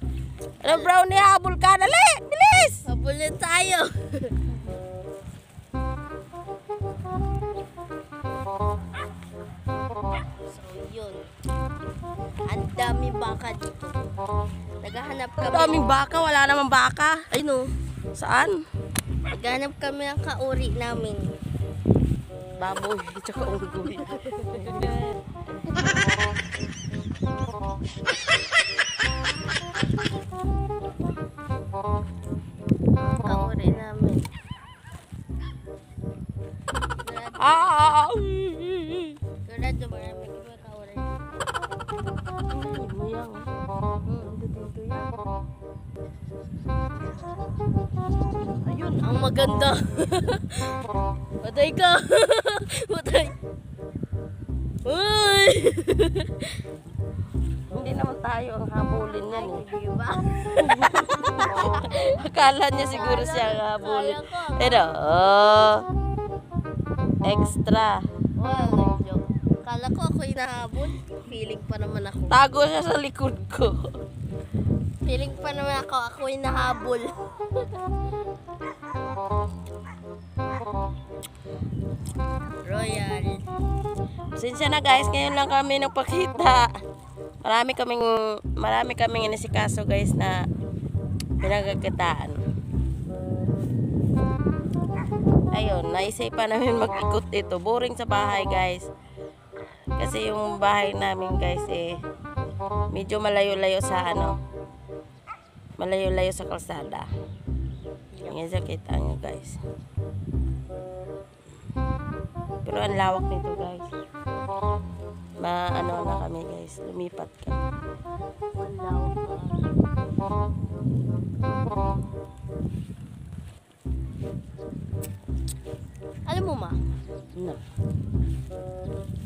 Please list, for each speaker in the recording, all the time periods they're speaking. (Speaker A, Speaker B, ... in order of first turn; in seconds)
Speaker A: 0.6-2.8, 15.4-17.2, 18.1-18.6, 22.6-25.0, 37.4-39.2, 42.5-43.5, 57.7-59.6, 60.6-65.9, 67.2-68.0, 72.3-73.9, 84.3-86.7, 87.4-90.5, 91.4-92.4, 95.5-98.9, 100.0-102.0, 102.9-104.4, 105.8-107.1, 108.2-109.6, 112.6-113.9, 115.4-117.6
Speaker B: 2.8-4.5, 10.4-11.3, 12.5-14.0, 14.8-15.9, 17.3-17.7, 19.3-21.3, 24.4-25.0, 33.0-34.3, 37.0-37.7, 39.4-41.3, 44.0-45.1, 48.6-50.8, 51.4-53.4, 54.8-56.5, 59.3-62.2, 62.9-64.8, 68.4-72.4, 75.0-77.7, 82.6-83.4, 108.1-108.4, 118.5-119.7, 126.2-126.8